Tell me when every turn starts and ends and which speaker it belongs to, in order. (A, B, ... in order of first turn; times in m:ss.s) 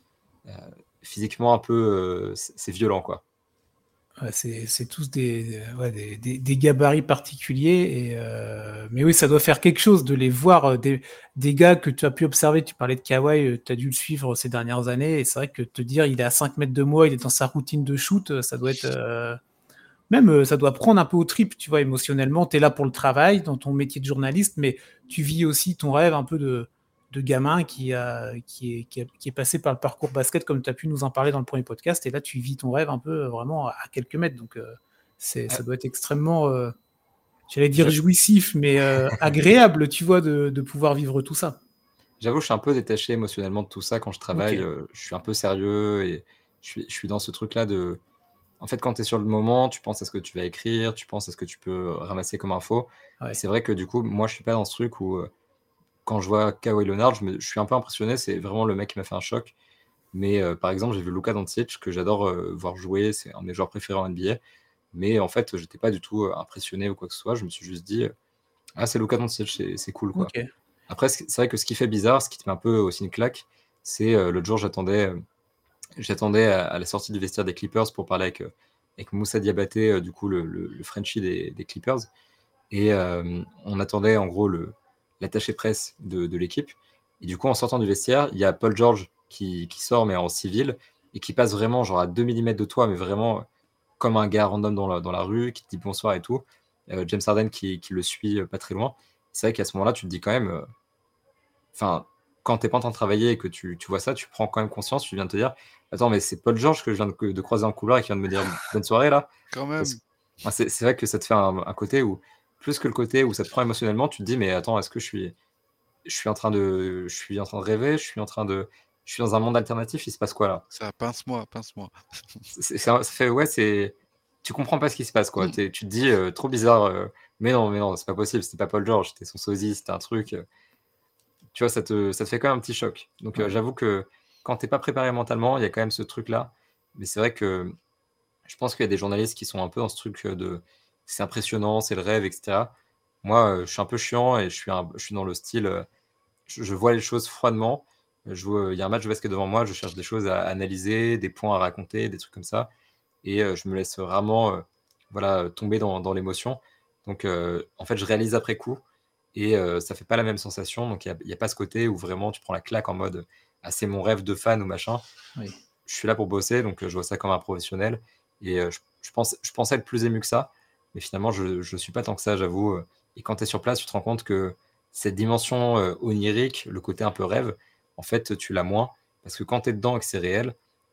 0:00.4-0:03.2 A
0:04.2-0:19.4 B
0:20.1-0:36.7 B
0:37.5-0:41.6 B
0:39.0-0:39.3 A
0:42.2-0:48.0 A
0:44.3-0:44.6 B
0:48.6-0:55.3 A
0:56.0-0:59.5 A
1:00.1-1:04.4 A
1:04.9-1:08.1 A
1:08.8-1:10.3 A
1:10.1-1:10.5 B
1:10.9-1:15.2 A
1:16.0-1:22.1 A
1:22.7-1:33.5 A
1:34.0-1:40.6 A
1:41.7-1:49.3 A
1:49.5-1:50.0 C
1:49.8-1:55.3 A
1:56.0-2:00.6 A
2:00.7-2:02.5 C
2:02.5-2:10.4 A
2:11.5-2:17.7 A
2:18.4-2:25.9 A
2:26.5-2:32.7 A
2:33.2-2:38.8 A
2:39.3-2:45.0 A
2:45.8-3:00.5 A